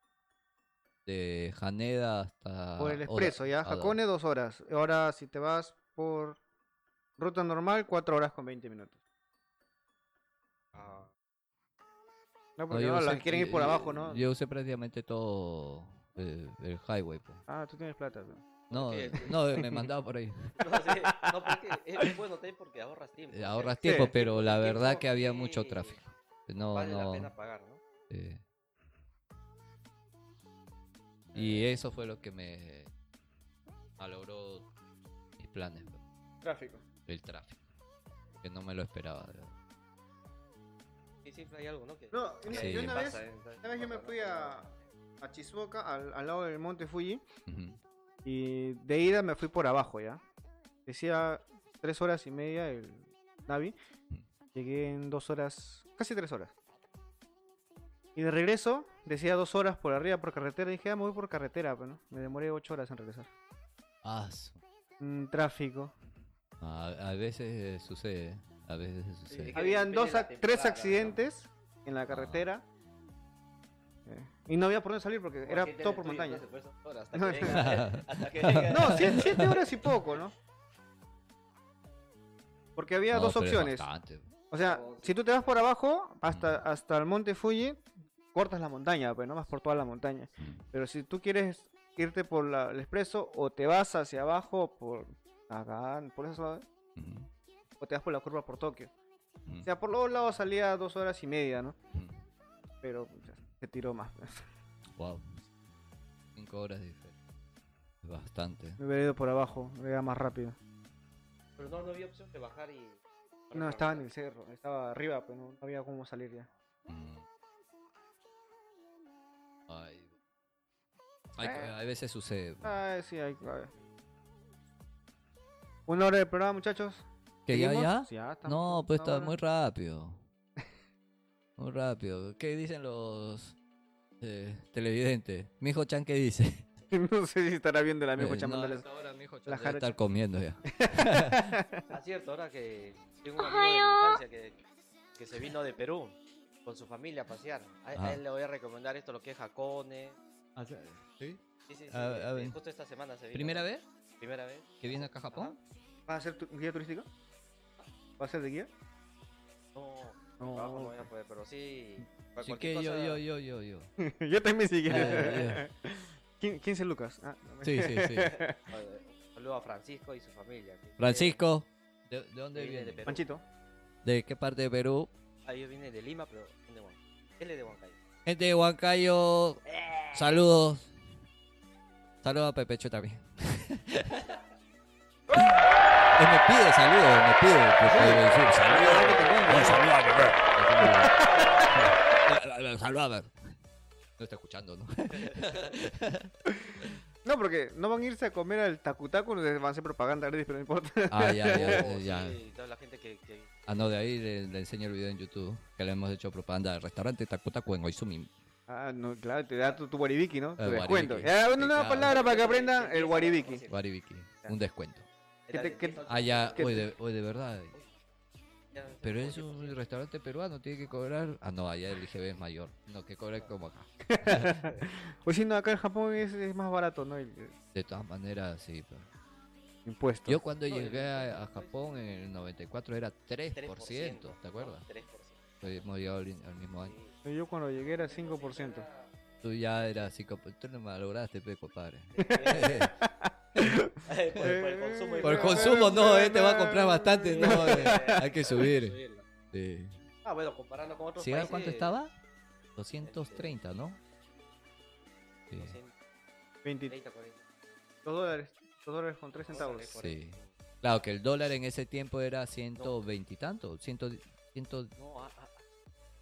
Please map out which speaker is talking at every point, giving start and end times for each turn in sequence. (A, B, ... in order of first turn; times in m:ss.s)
0:01.0-0:04.0 A
0:02.8-0:06.4 B
0:07.2-0:09.0 B
0:10.7-0:11.1 C
0:12.6-0:14.2 B
0:12.7-0:17.4 A
0:17.5-0:18.5 B
0:18.7-0:19.4 C
0:18.7-0:20.6 A
0:19.5-0:19.9 B
0:20.6-0:26.0 C
0:23.3-0:27.3 A
0:23.8-0:24.1 B
0:26.7-0:27.8 C
0:28.1-0:28.4 A
0:31.3-0:31.7 C
0:31.3-0:32.9 A
0:34.0-0:34.7 A
0:35.4-0:36.0 A
0:36.4-0:36.8 B
0:37.0-0:37.6 A
0:38.4-0:39.5 A
0:41.2-0:44.8 C
0:42.1-0:44.7 B
0:42.5-0:43.0 A
0:45.2-0:47.2 B
0:47.5-0:47.8 A
0:48.2-0:50.2 B
0:50.8-0:53.7 B
0:54.5-0:56.5 B
0:58.1-1:03.3 B
1:04.0-1:04.6 A
1:05.0-1:05.9 B
1:06.6-1:09.6 A
1:09.3-1:11.2 C
1:09.5-1:12.6 B
1:12.1-1:12.5 A
1:14.0-1:16.4 B
1:15.4-1:19.5 C
1:17.1-1:17.8 B
1:17.4-1:19.6 A
1:18.6-1:20.3 B
1:22.8-1:23.9 B
1:23.1-1:24.3 A
1:24.5-1:27.8 B
1:24.6-1:25.2 C
1:26.3-1:26.6 A
1:28.3-1:36.6 B
1:30.4-1:30.6 A
1:37.0-1:37.3 A
1:37.8-1:38.9 B
1:39.6-1:41.8 B
1:41.9-1:42.2 A
1:42.8-1:44.4 B
1:45.0-1:45.4 A
1:46.3-1:47.2 A
1:48.0-1:48.8 A
1:48.8-1:50.6 B
1:51.6-1:54.1 C
1:53.5-1:56.5 B
1:56.9-1:57.2 A
1:59.7-2:00.1 A
2:01.3-2:02.8 A
2:01.4-2:01.7 B
2:02.6-2:03.7 B
2:05.9-2:09.3 B
2:07.5-2:10.2 A
2:11.6-2:13.6 A
2:14.2-2:16.7 A
2:16.9-2:18.8 B
2:18.2-2:21.6 A
2:19.4-2:19.9 B
2:20.7-2:21.9 B
2:21.9-2:24.6 C
2:25.2-2:30.2 C
2:30.6-2:32.6 A
2:31.7-2:33.6 C
2:33.3-2:33.8 A
2:34.2-2:35.6 C
2:34.8-2:35.6 A
2:36.1-2:37.1 B
2:38.2-2:38.7 B
2:39.7-2:43.2 C
2:40.4-2:41.1 B
2:42.4-2:43.9 A
2:44.0-2:48.6 B
2:44.9-2:45.6 A
2:44.9-2:45.5 C
2:47.6-2:48.4 A
2:48.6-2:51.4 C
2:51.0-2:53.1 A
2:52.5-2:53.2 C
2:53.0-2:53.4 B
2:54.0-2:55.1 A
2:55.4-2:58.0 C
2:58.2-3:01.0 A
3:02.2-3:04.3 A
3:05.3-3:13.5 A
3:07.8-3:09.9 B
3:10.8-3:11.4 B
3:14.2-3:17.0 A
3:15.3-3:15.7 C
3:17.2-3:21.8 B
3:21.1-3:22.4 A
3:21.5-3:23.6 C
3:23.7-3:28.3 A
3:28.7-3:33.6 B
3:30.6-3:32.2 A
3:32.0-3:33.8 C
3:33.7-3:35.1 A
3:35.5-3:36.8 C
3:35.5-3:36.0 B
3:36.1-3:37.7 A
3:36.5-3:36.9 B
3:38.7-3:39.8 C
3:39.0-3:44.6 A
3:44.1-3:47.5 B
3:47.7-3:49.1 A
3:49.8-3:50.4 B
3:50.3-3:54.8 A
3:50.6-3:52.0 C
3:53.5-3:55.8 C
3:55.6-3:56.9 A
3:56.8-3:57.2 C
3:57.2-3:58.9 B
3:57.8-3:59.1 C
3:59.4-4:02.9 A
4:02.1-4:02.9 C
4:02.2-4:08.2 B
4:03.6-4:03.9 A
4:04.0-4:06.0 C
4:05.2-4:09.0 A
4:07.3-4:09.2 C
4:09.5-4:10.0 A
4:10.2-4:11.9 C
4:11.2-4:12.1 A
4:12.8-4:14.0 A
4:13.0-4:13.5 C
4:15.5-4:15.8 A
4:15.5-4:15.9 C
4:16.6-4:16.9 B
4:16.9-4:17.4 C
4:18.0-4:20.0 B
4:19.5-4:20.5 C
4:20.0-4:24.9 A
4:22.8-4:23.1 C
4:25.0-4:25.6 C